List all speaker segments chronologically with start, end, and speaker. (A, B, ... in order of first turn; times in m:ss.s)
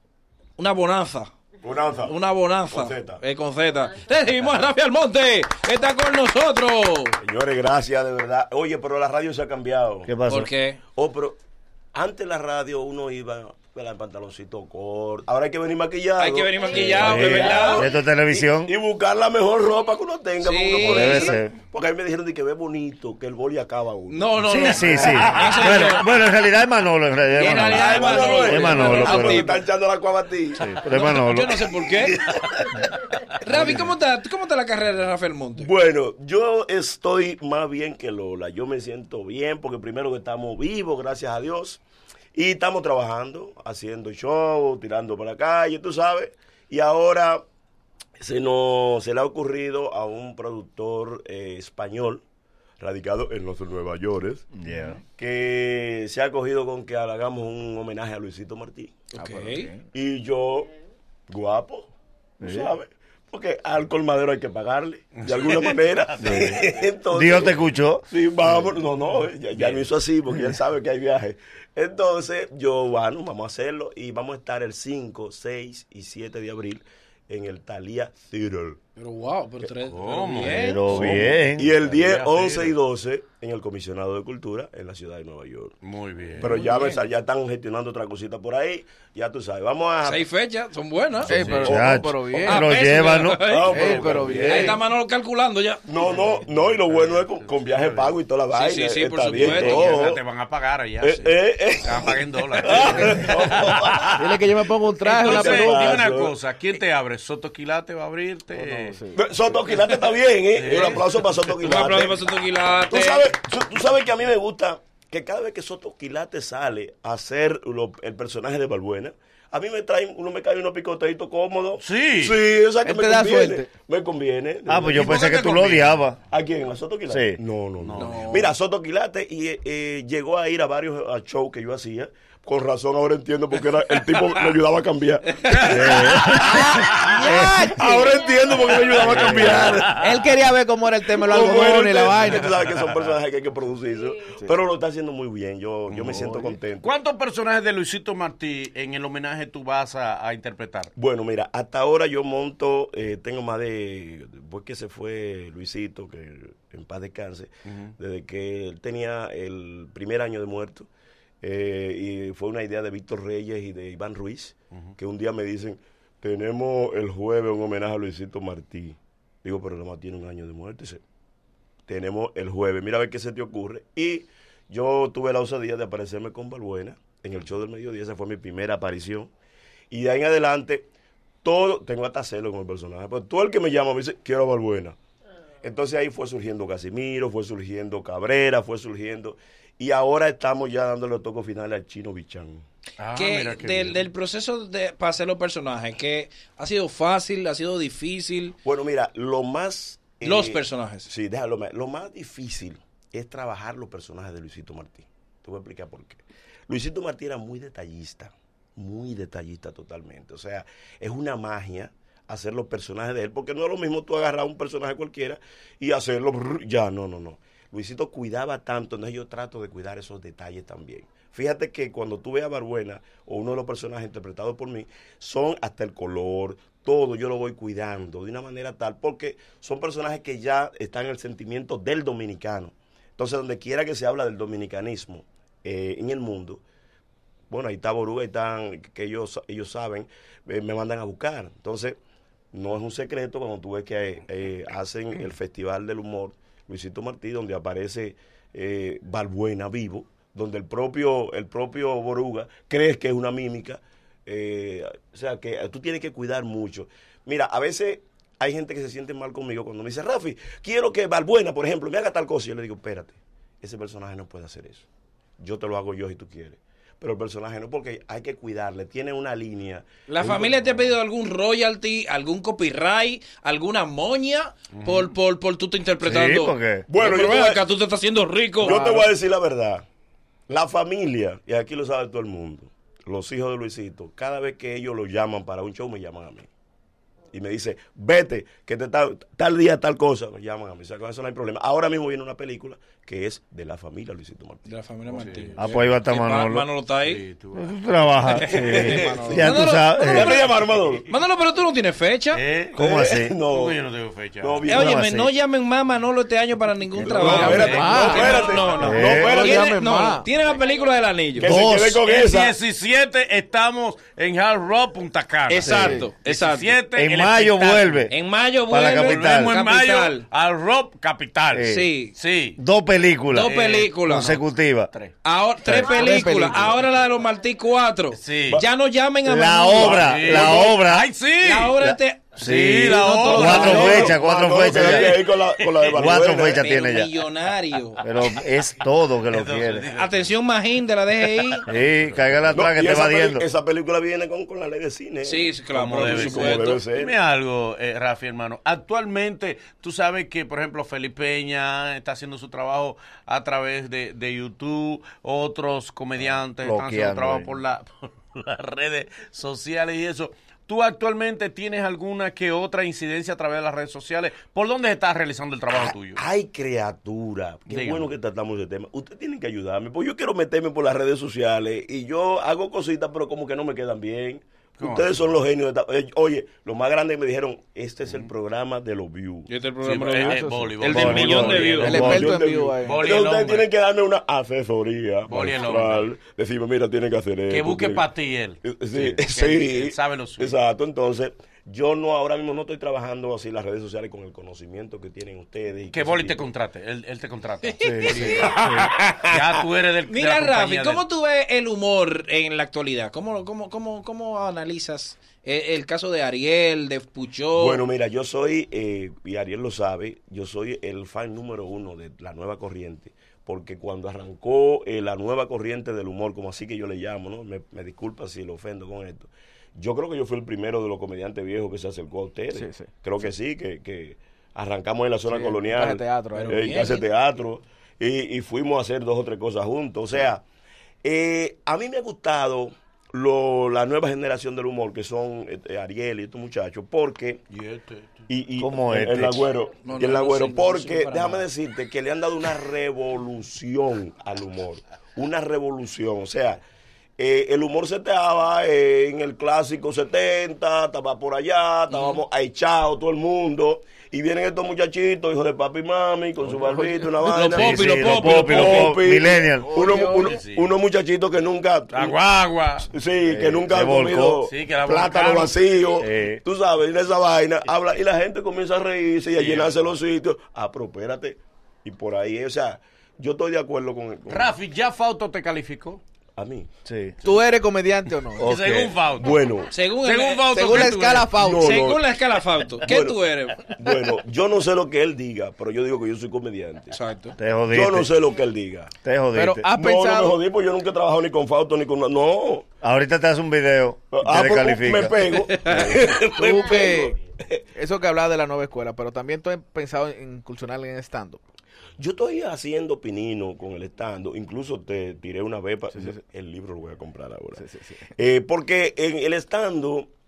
0:00.6-0:01.3 A
0:01.6-0:02.2 B
0:02.0-0:07.2 A
0:02.7-0:03.2 B
0:07.2-0:10.1 B
0:10.1-0:10.5 C
0:10.3-0:10.8 A
0:11.0-0:11.4 B
0:11.9-0:25.6 B
0:16.2-0:17.9 A
0:17.0-0:18.7 C
0:20.4-0:21.4 A
0:20.8-0:21.5 C
0:24.1-0:26.1 A
0:24.4-0:29.5 C
0:27.4-0:29.6 A
0:27.7-0:30.8 B
0:30.6-0:31.6 C
0:30.9-0:32.2 A
0:31.8-0:32.9 B
0:33.4-0:35.7 A
0:33.5-0:33.9 C
0:35.6-0:41.8 B
0:42.3-0:47.4 B
0:48.2-0:52.2 B
0:52.8-0:54.5 B
0:54.5-0:55.0 C
0:55.2-0:59.0 B
0:59.1-0:59.7 A
0:59.2-0:59.8 D
0:59.9-1:00.7 B
1:01.3-1:01.9 B
1:02.4-1:02.7 C
1:02.4-1:18.8 B
1:05.1-1:06.8 E
1:06.2-1:08.7 C
1:09.5-1:09.9 E
1:19.0-1:20.9 A
1:19.9-1:22.8 E
1:20.4-1:21.7 C
1:20.8-1:25.8 B
1:25.8-1:26.5 E
1:26.4-1:30.2 B
1:26.5-1:27.0 A
1:26.5-1:26.9 D
1:30.0-1:31.6 A
1:31.2-1:31.8 E
1:31.3-1:32.6 D
1:31.5-1:33.5 C
1:32.4-1:35.8 A
1:33.5-1:34.8 B
1:33.5-1:34.8 D
1:35.9-1:40.2 B
1:36.0-1:38.2 E
1:38.5-1:40.1 A
1:39.3-1:44.2 E
1:41.0-1:44.4 B
1:42.7-1:43.2 D
1:44.2-1:46.0 D
1:45.0-1:49.0 E
1:45.2-1:46.4 B
1:48.5-1:49.2 D
1:49.1-1:52.2 B
1:49.7-1:51.9 E
1:51.6-1:53.3 A
1:52.8-2:20.1 B
2:01.8-2:02.4 E
2:02.8-2:03.7 D
2:04.6-2:06.2 C
2:07.1-2:07.4 C
2:07.8-2:08.5 E
2:08.0-2:08.5 A
2:15.4-2:16.3 A
2:15.4-2:17.2 E
2:15.7-2:16.5 C
2:16.5-2:18.2 D
2:17.2-2:17.8 C
2:18.9-2:20.1 E
2:19.1-2:22.6 D
2:21.2-2:26.9 B
2:24.3-2:24.5 D
2:25.9-2:26.2 E
2:26.1-2:26.6 D
2:26.8-2:30.9 E
2:31.0-2:40.9 B
2:37.7-2:37.9 E
2:41.4-2:51.0 B
2:51.9-2:59.3 B
2:59.9-3:00.9 B
3:01.4-3:05.0 B
3:05.6-3:12.6 B
3:13.0-3:14.0 E
3:13.1-3:18.6 A
3:18.6-3:56.6 B
3:20.2-3:21.1 A
3:57.5-4:02.0 B
4:02.5-4:24.8 B
4:25.4-4:30.8 B
4:30.1-4:39.1 A
4:34.7-4:35.1 E
4:36.0-4:36.9 C
4:36.9-4:37.6 B
4:38.6-4:39.8 B
4:40.5-4:46.5 B
4:47.3-4:54.7 B
4:54.7-4:57.2 A
4:55.1-4:55.7 E
4:55.6-4:56.7 C
4:57.0-4:58.7 E
4:57.5-5:00.4 C
4:58.3-5:00.5 A
4:58.5-5:01.1 B
5:01.1-5:02.4 A
5:02.3-5:02.8 E
5:02.7-5:03.8 B
5:02.8-5:03.4 C
5:03.5-5:04.6 E
5:04.4-5:05.0 B
5:04.7-5:11.5 A
5:04.7-5:05.3 C
5:07.0-5:08.7 E
5:07.0-5:09.7 B
5:07.0-5:08.6 D
5:08.8-5:09.3 C
5:09.1-5:10.3 D
5:11.4-5:12.6 B
5:11.4-5:12.0 C
5:12.0-5:18.1 E
5:15.5-5:16.7 A
5:15.6-5:16.0 C
5:15.7-5:16.1 D
5:16.9-5:18.1 C
5:18.1-5:20.2 A
5:18.7-5:19.6 C
5:18.9-5:22.6 E
5:21.5-5:21.9 C
5:21.6-5:22.1 A
5:22.6-5:23.5 C
5:23.3-5:24.3 A
5:23.3-5:25.1 E
5:24.1-5:24.9 C
5:25.2-5:30.6 A
5:25.6-5:26.1 C
5:25.9-5:26.8 D
5:28.1-5:28.6 E
5:29.2-5:31.1 C
5:29.7-5:31.8 E
5:29.9-5:30.6 B
5:31.4-5:34.1 A
5:31.7-5:35.2 C
5:32.4-5:34.1 E
5:33.2-5:34.1 D
5:33.4-5:36.6 B
5:34.7-5:36.2 E
5:35.9-5:37.1 C
5:36.3-5:38.0 A
5:38.0-5:39.9 C
5:39.3-5:40.3 E
5:39.9-5:41.6 A
5:41.5-5:42.2 E
5:41.6-5:43.4 C
5:42.5-5:47.1 B
5:45.2-5:46.8 A
5:45.7-6:06.2 E
5:56.5-5:57.5 C
6:05.8-6:19.5 B
6:07.7-6:08.1 E
6:14.8-6:15.2 E
6:18.0-6:18.3 E
6:19.5-6:22.0 A
6:19.8-6:22.2 E
6:20.2-6:23.0 D
6:20.9-6:22.4 C
6:21.2-6:28.1 B
6:22.8-6:23.7 E
6:25.3-6:26.1 E
6:27.5-6:30.6 E
6:28.6-6:36.5 B
6:35.9-6:41.0 E
6:37.7-6:38.6 A
6:37.8-6:38.9 C
6:38.2-6:39.3 B
6:40.1-6:47.8 A
6:47.5-7:10.4 B
7:02.5-7:03.3 D
7:05.3-7:07.0 D
7:06.3-7:07.0 A
7:11.0-7:17.4 B
7:17.5-7:18.2 E
7:18.3-7:26.6 B
7:18.6-7:19.5 C
7:19.7-7:21.4 A
7:27.2-7:42.2 B
7:31.9-7:32.2 A
7:37.2-7:39.0 A
7:37.5-7:39.8 C
7:39.8-7:40.7 E
7:39.8-7:40.2 D
7:41.9-7:42.9 E
7:42.8-7:54.6 B
7:43.2-7:44.4 C
7:44.4-7:45.7 E
7:46.0-7:46.4 C
7:49.3-7:50.0 E
7:54.3-7:56.0 E
7:56.4-7:56.7 B
7:56.8-7:57.2 C
7:57.2-7:58.5 D
7:58.4-7:59.0 C
7:58.4-7:59.4 E
7:59.2-7:59.7 B
7:59.7-8:00.8 A
8:00.0-8:01.4 E
8:00.5-8:01.9 D
8:01.4-8:02.0 B
8:01.6-8:03.6 A
8:02.8-8:06.9 B
8:06.9-8:07.4 A
8:07.4-8:08.1 C
8:07.7-8:08.9 B
8:09.0-8:09.7 C
8:09.3-8:10.4 D
8:09.7-8:12.7 B
8:12.8-8:15.9 C
8:14.1-8:17.6 B
8:15.5-8:15.8 A
8:15.7-8:17.2 D
8:17.7-8:21.4 D
8:22.0-8:30.1 B
8:27.6-8:28.0 D